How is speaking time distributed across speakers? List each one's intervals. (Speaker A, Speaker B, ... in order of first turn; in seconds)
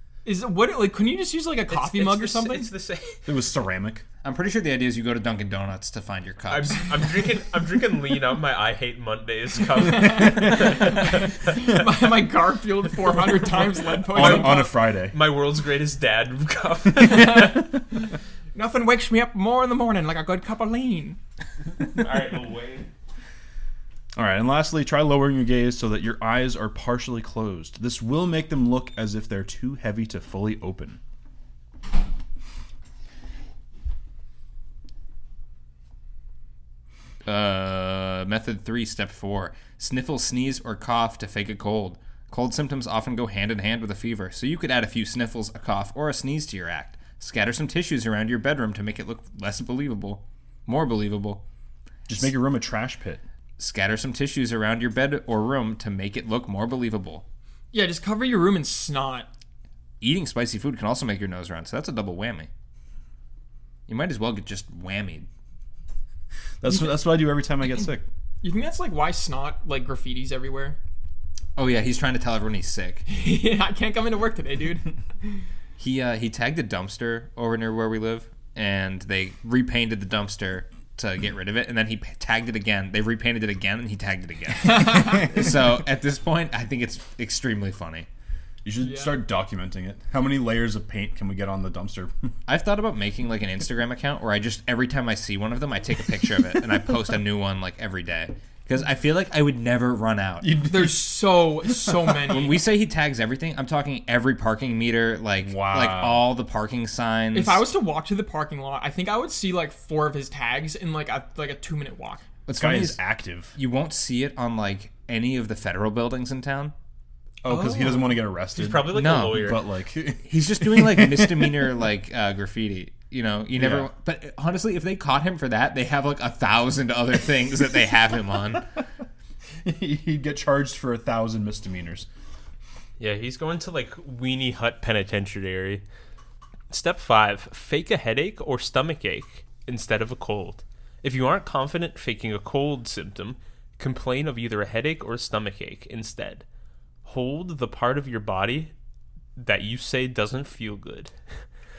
Speaker A: 0.2-2.7, 9.8-14.7, 17.0-17.7, 18.6-21.2, 57.7-59.3, 68.4-70.8, 73.1-75.4, 88.8-89.2, 100.6-102.6, 107.3-112.2, 117.5-118.2
Speaker B: 1.7-3.2, 6.5-11.3, 14.1-17.6, 21.8-22.9, 118.5-119.6, 133.0-135.8, 136.7-146.4, 147.1-148.7, 149.4-151.1
Speaker C: 3.3-4.0, 14.1-15.2, 24.2-31.0, 52.1-53.2, 66.6-68.0, 84.9-85.5, 88.6-92.1, 100.4-102.2, 105.4-106.3, 112.6-113.6, 117.4-121.7, 123.5-123.9, 129.7-132.1
Speaker D: 4.2-6.9, 37.2-51.4, 53.6-57.2, 60.0-62.5, 63.9-65.3, 71.6-73.0, 75.8-88.1, 92.5-100.5, 102.3-107.7, 112.5-113.0, 113.6-116.7, 118.9-119.5, 120.2-128.7